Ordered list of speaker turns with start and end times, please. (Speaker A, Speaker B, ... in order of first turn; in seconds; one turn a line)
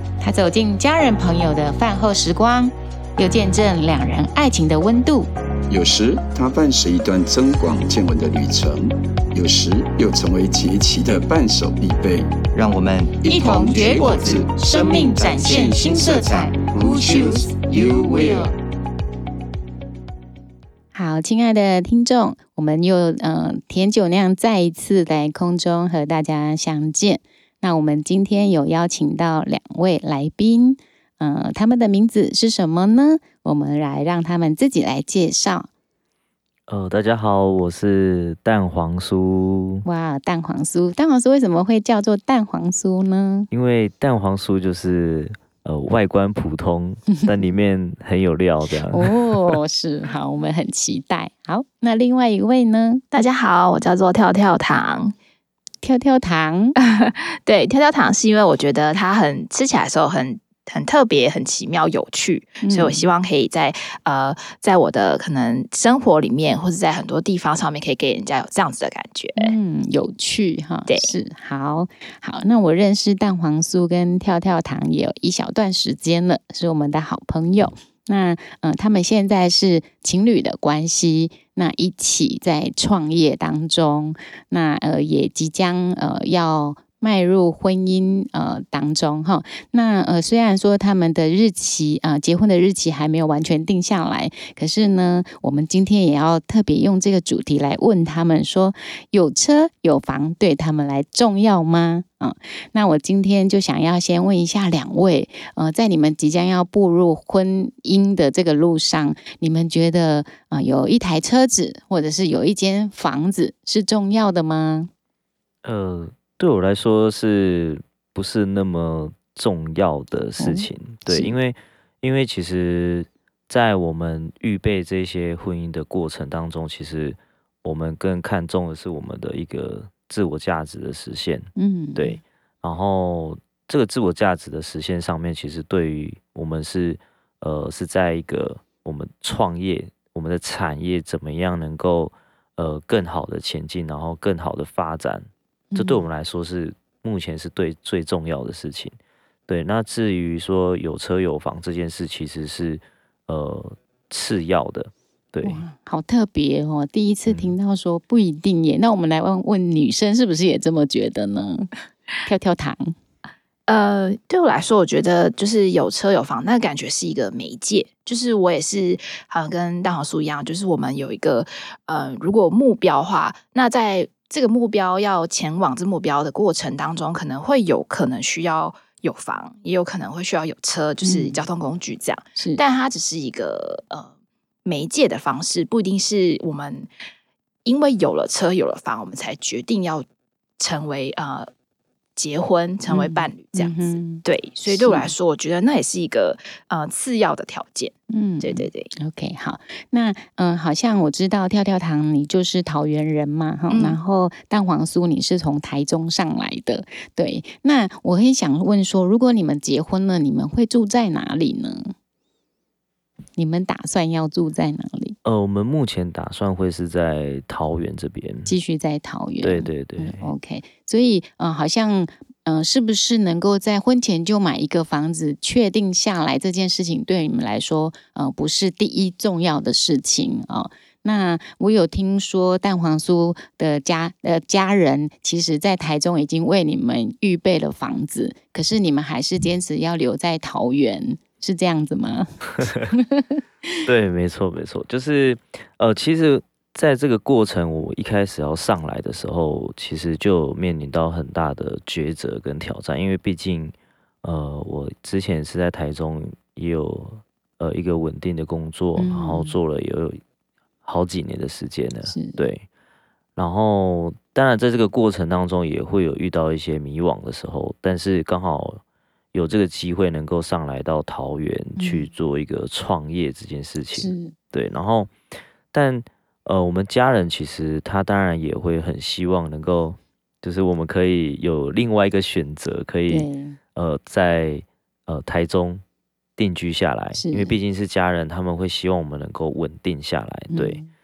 Speaker A: 0.2-5.3
Speaker B: 5.7-12.3
Speaker C: 12.5-15.4
Speaker B: 13.2-18.5
Speaker A: 13.3-18.5
Speaker C: 16.1-16.5
Speaker A: 20.9-35.7
Speaker D: 36.7-39.8
Speaker A: 39.8-43.5
Speaker D: 43.5-49.6
Speaker A: 48.9-53.0
Speaker E: 53.1-55.1
Speaker A: 55.8-56.7
Speaker E: 56.8-69.5
Speaker A: 62.6-63.1
Speaker A: 69.3-114.9
Speaker E: 70.9-71.1
Speaker D: 115.6-148.9
Speaker A: 120.4-121.3
Speaker A: 131.6-132.2
Speaker A: 145.7-146.0
Speaker D: 149.5-155.6
Speaker A: 155.4-161.7
Speaker D: 157.3-157.5
Speaker A: 162.2-162.9
Speaker E: 163.7-184.1
Speaker A: 181.0-181.4
Speaker A: 182.3-182.6
Speaker E: 184.6-186.9
Speaker E: 187.6-190.1
Speaker E: 190.6-191.5
Speaker E: 192.2-198.9
Speaker A: 192.9-195.1
Speaker A: 198.1-211.9
Speaker E: 203.7-204.0
Speaker A: 213.3-215.2
Speaker D: 215.2-218.6
Speaker A: 218.4-243.7
Speaker D: 219.4-220.3
Speaker D: 242.6-242.9
Speaker D: 243.8-260.2
Speaker A: 259.0-259.6
Speaker D: 260.8-262.6
Speaker A: 262.1-262.4
Speaker D: 263.4-268.8
Speaker D: 269.3-275.1
Speaker A: 271.8-272.1
Speaker A: 274.0-274.3
Speaker D: 275.7-285.8
Speaker A: 283.1-283.6
Speaker D: 286.4-290.8
Speaker A: 287.1-287.6
Speaker A: 290.5-290.9